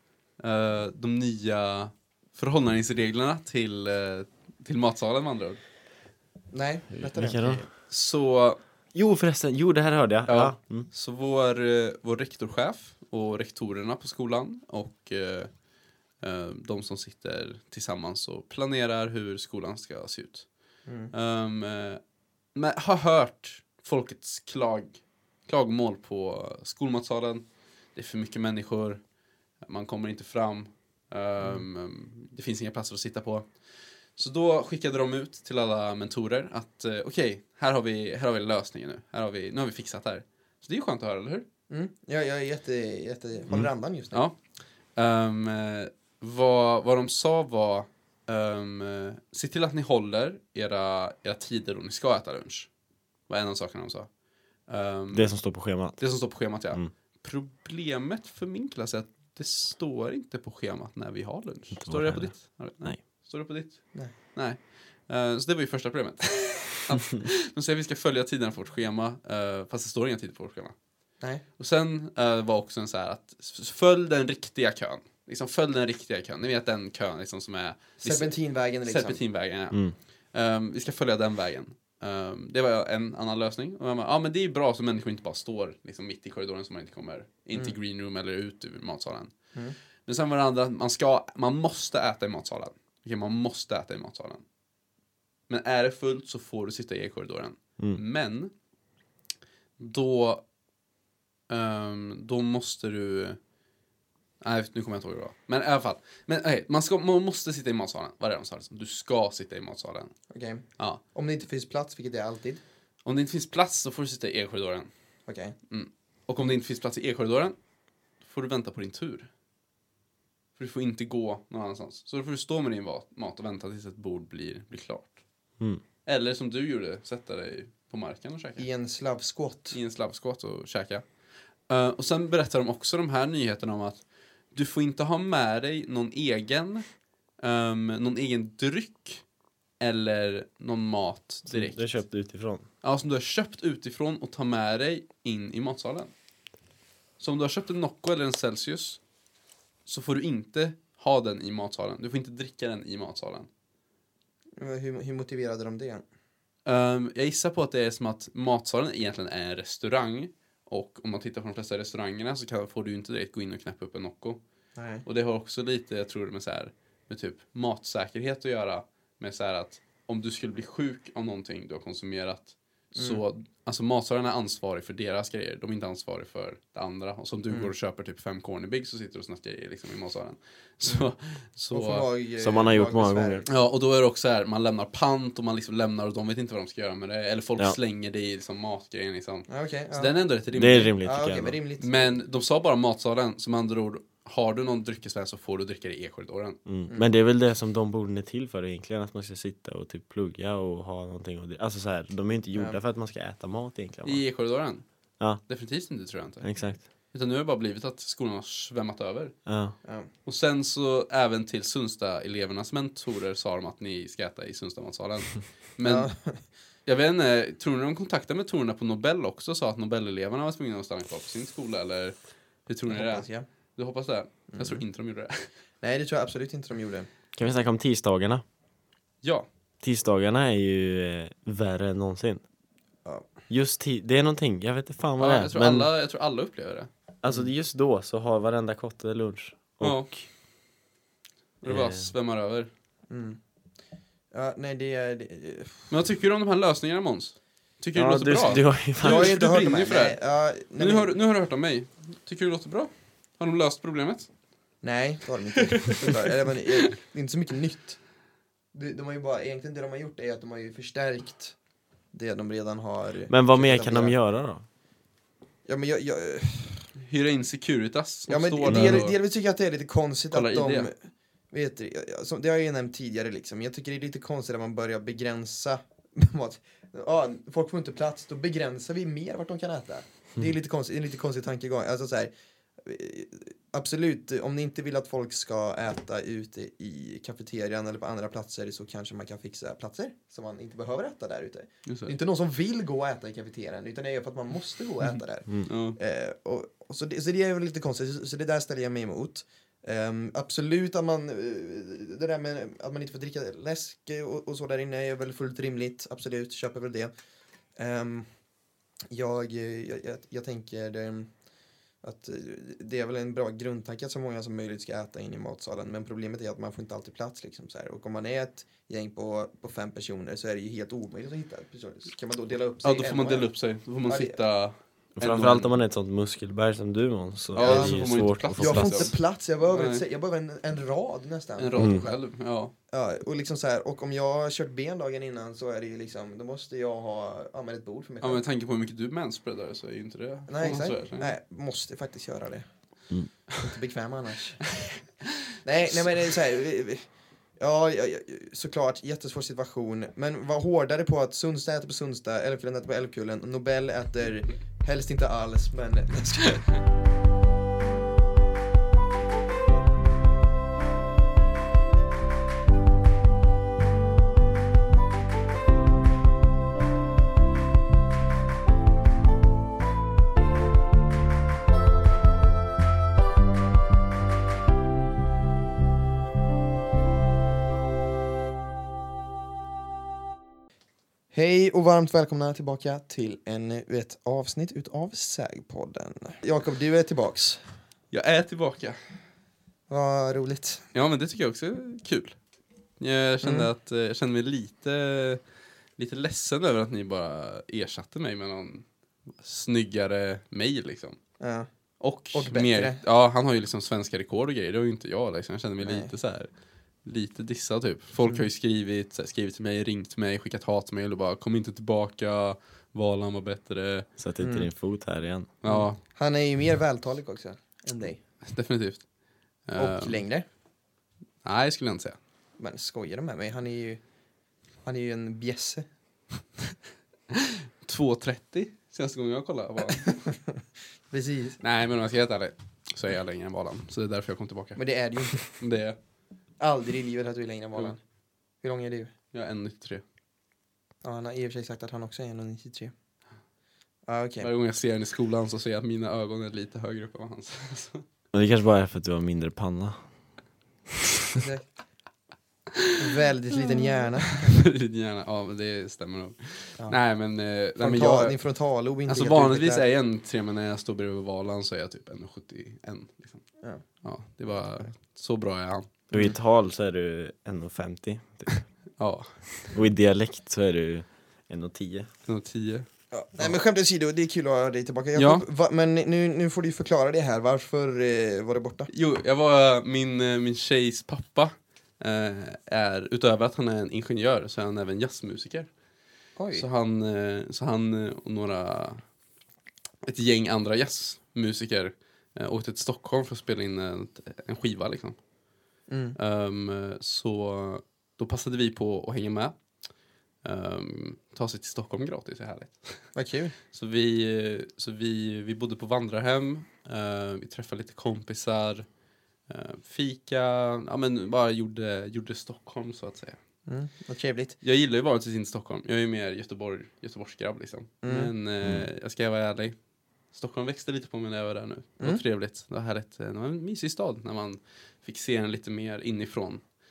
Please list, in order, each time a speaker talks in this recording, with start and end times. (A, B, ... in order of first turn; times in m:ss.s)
0:00.4-0:05.6 A
0:06.5-0:07.7 B
0:07.0-0:07.7 C
0:07.9-0:08.6 A
0:08.9-0:10.9 C
0:10.3-0:15.5 A
0:16.2-0:20.5 A
0:20.9-0:21.1 B
0:21.1-0:22.0 A
0:22.6-0:29.0 A
0:29.7-0:33.5 A
0:31.4-0:31.6 B
0:34.2-0:41.4 A
0:41.7-0:44.2 B
0:45.0-0:52.7 A
0:53.3-0:54.1 A
0:54.7-0:55.4 A
0:55.1-0:56.1 C
0:56.0-1:10.8 A
1:01.8-1:03.0 C
1:11.6-1:19.8 A
1:18.0-1:19.2 B
1:20.3-1:29.3 A
1:30.0-1:34.4 A
1:35.5-1:38.5 A
1:39.8-1:40.4 A
1:41.5-1:43.4 A
1:44.4-1:50.1 A
1:50.3-1:52.6 B
1:53.0-1:54.9 A
1:55.3-1:55.6 B
1:55.7-1:57.6 A
1:58.2-1:59.3 A
2:00.6-2:05.2 A
2:06.0-2:08.7 A
2:08.6-2:09.8 B
2:09.7-2:11.0 A
2:11.7-2:14.0 A
2:14.5-2:16.8 A
2:17.4-2:19.2 A
2:19.8-2:21.8 A
2:21.5-2:22.7 C
2:22.8-2:26.1 A
2:27.2-2:29.0 A
2:29.8-2:33.5 A
2:34.6-2:36.0 B
2:36.7-2:44.4 A
2:44.8-2:45.0 B
2:45.0-3:02.0 A
2:53.0-2:53.2 B
3:01.7-3:03.5 B
3:02.4-3:03.4 C
3:03.5-3:10.9 A
3:09.5-3:10.1 B
3:10.5-3:11.6 C
3:11.0-3:12.1 B
3:11.8-3:16.6 A
3:16.7-3:24.2 C
3:16.9-3:17.1 B
3:24.0-3:24.8 A
3:25.4-3:26.5 A
3:26.4-3:26.8 C
3:27.1-3:29.3 A
3:29.4-3:29.7 C
3:29.8-3:30.1 B
3:30.2-3:36.1 A
3:35.8-3:36.4 B
3:36.8-3:42.1 A
3:42.7-3:45.5 A
3:42.9-3:43.4 B
3:44.5-3:44.8 B
3:45.8-3:47.1 B
3:47.4-3:48.4 C
3:49.8-3:52.4 C
3:53.0-3:53.3 B
3:53.5-3:55.9 C
3:55.2-3:56.9 A
3:57.2-4:00.2 C
3:59.8-4:00.2 A
4:01.6-4:02.7 A
4:01.6-4:02.1 C
4:03.1-4:03.4 B
4:04.3-4:05.9 B
4:05.9-4:10.2 A
4:07.9-4:09.3 C
4:09.0-4:11.1 B
4:10.8-4:14.3 A
4:14.8-4:18.0 B
4:15.6-4:16.9 A
4:18.7-4:21.6 B
4:22.1-4:24.2 B
4:23.3-4:24.6 C
4:25.7-4:26.9 B
4:27.0-4:29.2 A
4:28.3-4:30.9 B
4:28.7-4:29.0 C
4:30.3-4:30.9 A
4:31.5-5:07.1 B
4:51.9-4:52.1 A
4:55.6-4:56.0 A
5:07.8-5:08.3 B
5:09.1-5:11.3 B
5:12.0-5:23.5 B
5:22.8-5:25.7 A
5:24.1-5:24.4 B
5:25.2-5:29.1 C
5:27.5-5:29.2 A
5:27.6-5:32.2 B
5:29.7-5:30.0 A
5:31.6-5:32.7 A
5:32.9-5:38.4 B
5:38.2-5:41.3 A
5:40.5-5:42.7 B
5:43.6-5:44.7 B
5:45.6-5:47.0 B
5:47.6-5:56.8 B
6:21.3-6:27.6 B
6:28.1-6:29.0 A
6:29.9-6:30.9 B
6:30.9-6:32.4 A
6:33.0-6:35.4 A
6:33.4-6:33.7 B
6:36.0-6:38.9 A
6:39.4-6:41.2 A
6:41.4-6:41.7 B
6:42.0-6:46.5 A
6:42.3-6:43.0 B
6:45.8-6:46.1 B
6:47.0-6:54.1 A
6:54.2-6:55.5 C
6:54.4-6:54.7 B
6:55.6-6:56.0 A
6:55.7-6:58.2 B
6:58.4-6:59.1 A
6:59.7-7:00.2 A
6:59.8-7:00.4 B
7:01.4-7:02.2 A
7:02.6-7:04.0 B
7:04.8-7:05.9 B
7:07.3-7:10.2 A
7:09.9-7:11.6 B
7:11.6-7:16.0 A
7:14.8-7:15.5 B
7:16.6-7:18.0 B
7:18.6-7:19.1 B
7:19.3-7:20.0 A
7:21.0-7:22.9 B
7:24.1-7:24.5 B
7:24.4-7:28.0 A
7:28.3-7:30.0 C
7:30.9-7:31.4 C
7:31.4-7:31.6 B
7:33.0-7:34.6 B
7:34.3-7:38.4 A
7:37.8-7:39.8 B
7:39.1-7:43.4 A
7:44.0-7:46.0 A
7:46.1-7:48.6 C
7:49.0-7:49.8 A
7:49.7-7:52.1 C
7:52.2-7:53.6 A
7:53.1-7:58.9 B
7:55.2-7:55.4 A
7:58.9-8:05.7 A
8:06.4-8:06.6 B
8:06.5-8:09.0 A
8:10.0-8:15.2 A
8:15.9-8:16.2 B
8:16.2-8:19.6 A
8:20.4-8:23.1 A
8:23.2-8:23.6 B
8:23.7-8:28.8 A
8:29.5-8:33.4 A
8:33.7-8:34.6 B
8:34.6-8:39.8 A
8:38.0-8:38.3 B
8:40.3-8:46.6 A